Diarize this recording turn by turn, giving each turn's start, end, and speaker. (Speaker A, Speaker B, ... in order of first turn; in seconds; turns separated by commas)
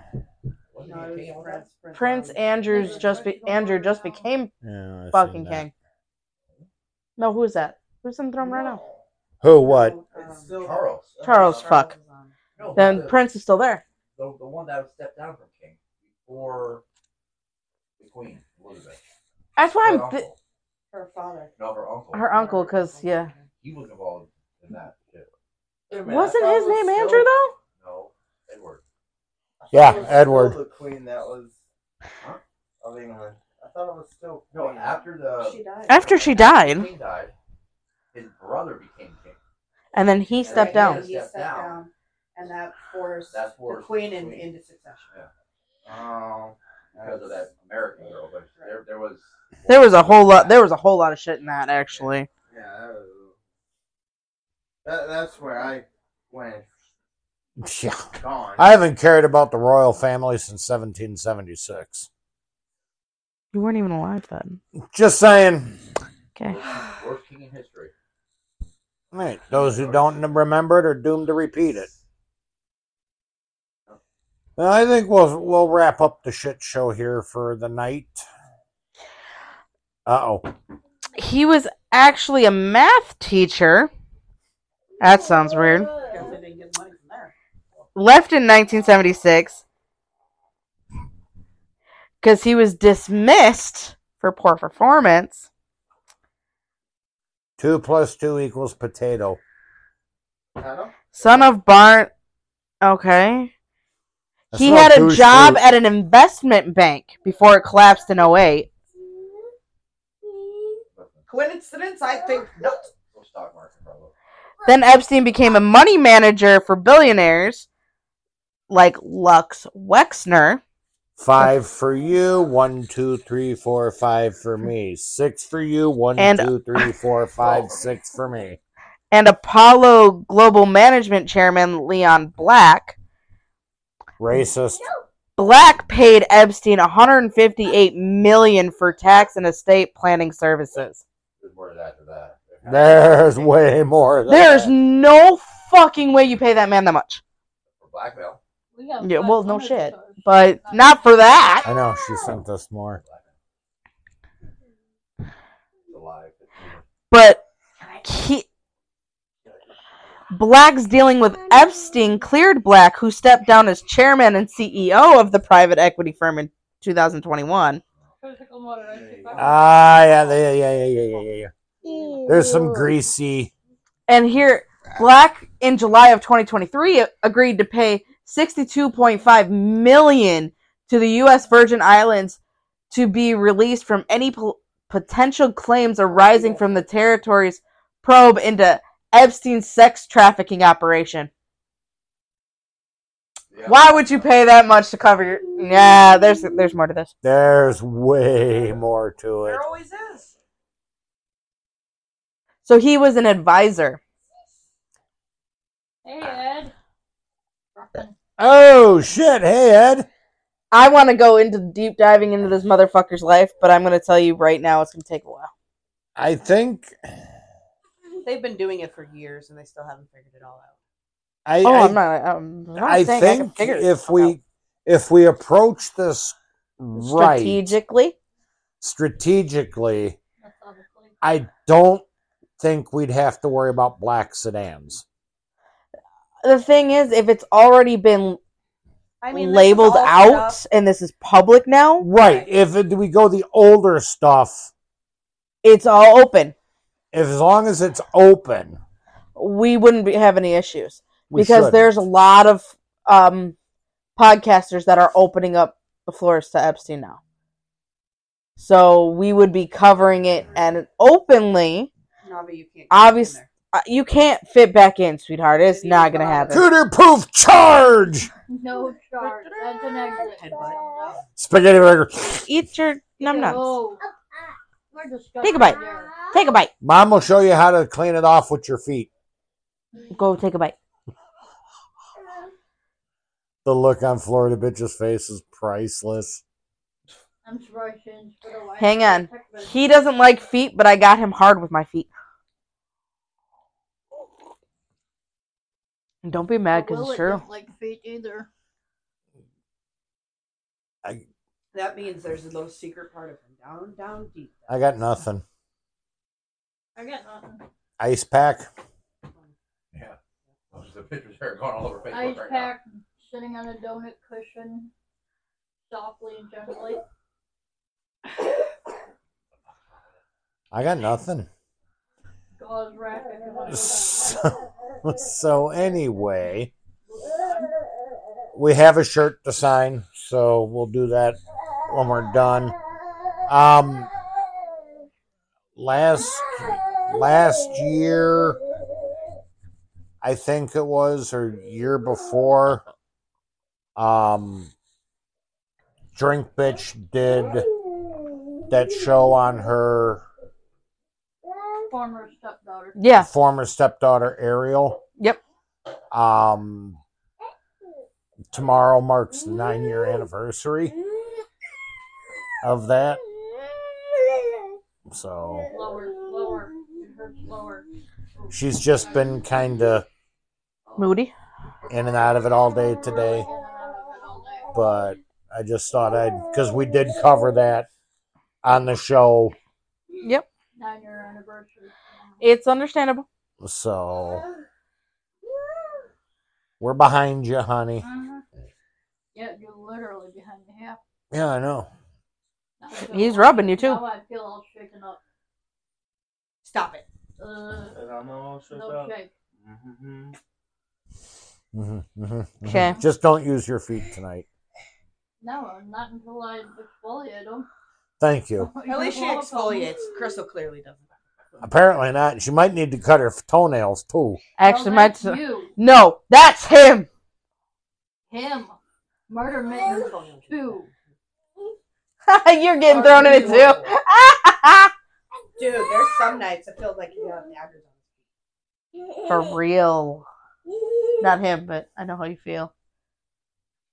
Speaker A: 0.7-1.7, Speaker B: 0.8-3.9, Speaker C: 1.9-4.5, Speaker D: 4.6-5.7, Speaker C: 5.1-5.7, Speaker C: 7.2-8.8, Speaker D: 9.4-10.0, Speaker B: 9.6-10.6, Speaker E: 10.1-11.8, Speaker A: 10.6-11.2, Speaker C: 11.2-11.9, Speaker B: 11.3-12.4, Speaker A: 12.6-13.2, Speaker C: 12.8-13.8, Speaker A: 14.2-16.8, Speaker A: 18.0-19.0, Speaker C: 19.6-20.2, Speaker A: 19.8-20.4, Speaker B: 20.9-21.6, Speaker A: 21.6-22.3, Speaker C: 22.1-23.3, Speaker B: 22.3-23.5, Speaker A: 23.6-25.3, Speaker E: 25.9-27.3, Speaker C: 26.0-27.5, Speaker A: 27.7-28.8, Speaker E: 29.6-31.6, Speaker D: 29.7-30.6, Speaker E: 32.8-35.1, Speaker A: 34.5-37.3, Speaker B: 35.3-36.2, Speaker C: 35.9-36.9, Speaker A: 38.1-39.4, Speaker C: 39.9-41.0, Speaker A: 40.4-41.8, Speaker B: 40.5-45.1, Speaker A: 43.3-44.5, Speaker E: 45.9-47.5, Speaker A: 47.0-50.6, Speaker C: 49.7-52.3, Speaker A: 51.9-52.2, Speaker E: 52.5-53.4, Speaker E: 54.8-56.7, Speaker D: 57.6-62.1, Speaker E: 58.1-58.7, Speaker C: 63.5-64.6, Speaker D: 64.9-65.8, Speaker A: 66.5-67.9, Speaker D: 69.1-71.9, Speaker A: 69.6-70.0, Speaker D: 74.6-78.2, Speaker D: 80.1-80.5, Speaker C: 81.2-83.9, Speaker C: 85.0-85.9, Speaker B: 86.1-87.3, Speaker C: 88.0-89.6, Speaker C: 92.2-95.5, Speaker D: 97.6-99.4, Speaker E: 100.6-101.5, Speaker C: 101.1-102.1, Speaker C: 102.8-103.5, Speaker D: 104.5-105.6, Speaker C: 104.5-108.7, Speaker A: 110.9-111.3, Speaker B: 111.3-112.9, Speaker A: 113.1-114.1, Speaker C: 114.7-117.7, Speaker C: 118.7-120.6, Speaker D: 121.2-128.6, Speaker C: 126.2-126.9, Speaker A: 127.4-127.9, Speaker C: 129.1-133.0, Speaker D: 134.2-134.9, Speaker C: 135.4-141.0, Speaker A: 141.4-143.6, Speaker D: 142.7-144.7, Speaker C: 144.3-147.2, Speaker A: 147.8-148.4, Speaker F: 148.7-151.4, Speaker C: 149.0-151.7, Speaker D: 151.7-153.0, Speaker A: 152.9-153.3, Speaker A: 155.9-156.9, Speaker C: 157.1-157.4, Speaker C: 158.0-158.5, Speaker C: 160.3-167.8, Speaker F: 168.2-169.7, Speaker E: 168.9-169.6, Speaker D: 169.4-171.5, Speaker D: 172.2-173.5, Speaker C: 174.1-182.4, Speaker C: 182.9-191.3, Speaker A: 193.5-194.3, Speaker C: 193.7-197.1, Speaker D: 197.2-199.6, Speaker B: 199.4-200.3, Speaker C: 202.7-204.0, Speaker F: 206.0-206.7, Speaker F: 207.8-208.2, Speaker D: 208.4-210.1, Speaker C: 210.7-215.5, Speaker D: 216.2-217.2, Speaker B: 218.2-220.8, Speaker D: 221.5-222.0, Speaker C: 221.6-224.0, Speaker D: 222.8-227.8, Speaker C: 227.0-228.2, Speaker D: 228.8-230.2, Speaker F: 230.4-231.2, Speaker D: 231.2-232.1, Speaker D: 232.6-235.0, Speaker C: 236.4-238.4, Speaker B: 239.2-240.6, Speaker C: 239.3-242.1, Speaker D: 242.0-244.7, Speaker B: 242.2-242.5, Speaker C: 245.6-246.6, Speaker D: 247.1-248.8, Speaker C: 249.4-253.6, Speaker D: 251.3-252.0, Speaker C: 254.2-257.2, Speaker C: 258.6-261.9, Speaker B: 262.2-263.5, Speaker C: 262.9-266.7, Speaker B: 265.6-266.7, Speaker D: 266.5-268.3, Speaker F: 268.5-270.9, Speaker B: 269.2-271.3, Speaker D: 271.4-272.5, Speaker C: 272.5-273.8, Speaker F: 273.2-274.1, Speaker F: 274.9-276.2, Speaker C: 275.4-276.7, Speaker D: 276.8-279.1, Speaker C: 280.1-280.8, Speaker D: 283.6-286.4, Speaker F: 287.4-289.8, Speaker C: 288.8-292.1, Speaker C: 296.2-297.4, Speaker F: 296.7-298.5, Speaker B: 301.7-304.7, Speaker D: 304.7-305.4, Speaker F: 307.0-307.6, Speaker D: 308.0-308.7, Speaker A: 310.7-312.7, Speaker F: 312.1-314.9, Speaker F: 315.9-317.0, Speaker D: 320.7-321.5, Speaker F: 322.6-324.6, Speaker D: 323.7-324.5, Speaker D: 325.0-326.7, Speaker F: 327.1-327.8, Speaker D: 328.6-332.8, Speaker D: 333.5-334.1, Speaker D: 335.8-338.6, Speaker D: 340.2-342.8, Speaker D: 344.0-344.7, Speaker D: 346.1-347.7, Speaker D: 348.7-350.2, Speaker F: 351.9-353.0, Speaker C: 353.0-353.3, Speaker D: 353.2-355.0, Speaker D: 356.1-357.0, Speaker D: 358.5-360.9, Speaker D: 362.6-363.2, Speaker D: 365.1-365.7, Speaker F: 365.7-369.5, Speaker D: 368.5-370.1, Speaker C: 371.0-371.3, Speaker D: 371.9-373.5, Speaker F: 373.0-374.8, Speaker D: 374.7-377.9, Speaker D: 378.6-379.6, Speaker C: 380.2-380.5, Speaker F: 380.8-382.4, Speaker C: 382.4-383.3, Speaker D: 383.6-384.4, Speaker D: 386.8-388.1, Speaker F: 388.0-388.4, Speaker F: 389.3-391.0, Speaker D: 391.3-391.9, Speaker F: 392.8-395.2, Speaker C: 393.1-394.0, Speaker B: 396.6-397.1, Speaker F: 397.4-398.0, Speaker E: 397.9-400.4, Speaker F: 398.7-399.3, Speaker D: 401.7-404.5, Speaker C: 402.6-403.0, Speaker F: 405.4-407.7, Speaker D: 408.2-408.7, Speaker F: 408.6-410.0, Speaker B: 408.9-411.1, Speaker D: 411.6-414.4, Speaker C: 414.6-417.1, Speaker F: 414.6-415.7, Speaker F: 418.3-418.8, Speaker F: 419.3-420.9, Speaker B: 419.9-420.9, Speaker C: 422.3-424.9, Speaker E: 422.9-423.9, Speaker B: 422.9-423.9, Speaker B: 425.6-428.1, Speaker C: 429.3-430.3, Speaker C: 431.2-432.7